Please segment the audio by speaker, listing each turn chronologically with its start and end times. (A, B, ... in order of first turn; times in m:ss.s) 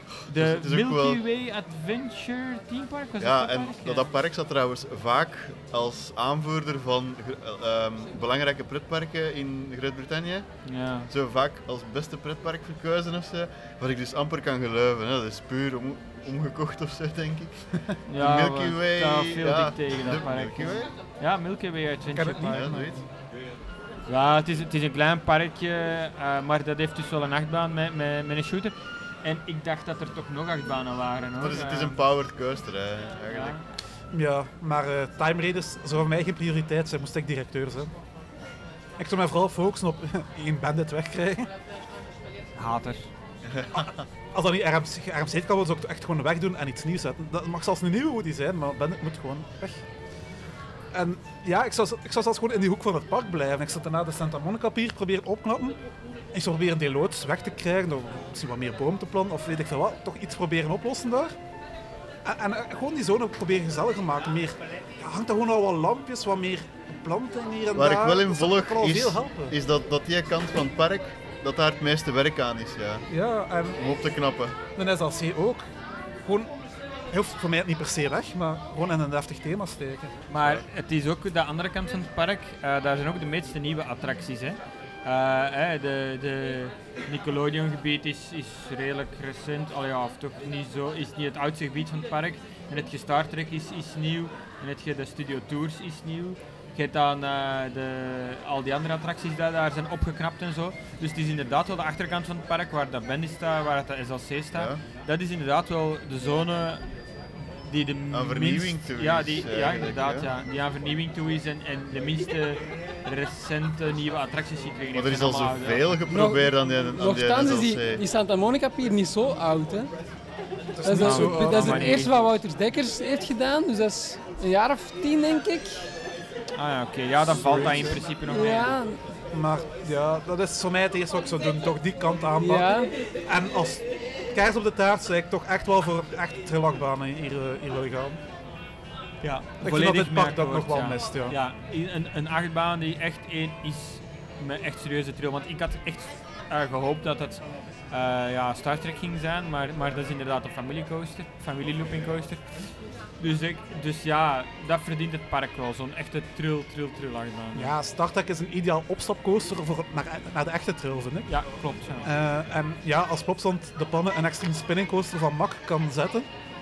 0:00.2-0:01.2 A
0:00.3-0:04.1 B
0:03.2-0:10.5 A
0:10.6-0:11.1 B
0:11.1-0:20.9 A
0:18.1-0:22.8 B
0:22.1-0:23.0 C
0:22.5-0:23.0 A
0:24.1-0:32.0 B
0:31.4-0:33.6 A
0:33.3-0:33.6 B
0:34.1-0:37.9 C
0:39.0-0:41.5 C
0:42.6-0:43.1 B
0:43.4-0:43.9 A
0:43.7-0:49.8 C
0:50.9-0:55.8 C
0:56.3-1:01.4 C
1:02.2-1:09.6 C
1:07.7-1:13.0 A
1:13.1-1:13.8 C
1:13.8-1:14.6 A
1:14.7-1:15.7 C
1:16.2-1:16.5 C
1:17.1-1:20.1 C
1:20.3-1:46.9 B
1:44.5-1:44.8 A
1:47.6-1:56.0 B
1:48.1-1:50.3 A
1:54.9-1:58.0 A
1:56.1-1:59.9 D
2:00.8-2:02.1 C
2:00.8-2:05.8 D
2:00.9-2:02.3 B
2:06.6-2:08.8 B
2:07.3-2:08.0 C
2:08.2-2:09.0 D
2:09.3-2:18.2 C
2:12.4-2:12.9 D
2:19.2-2:21.4 C
2:19.5-2:32.5 B
2:33.2-2:37.7 B
2:37.5-2:41.3 C
2:41.3-2:42.1 B
2:42.0-2:46.3 C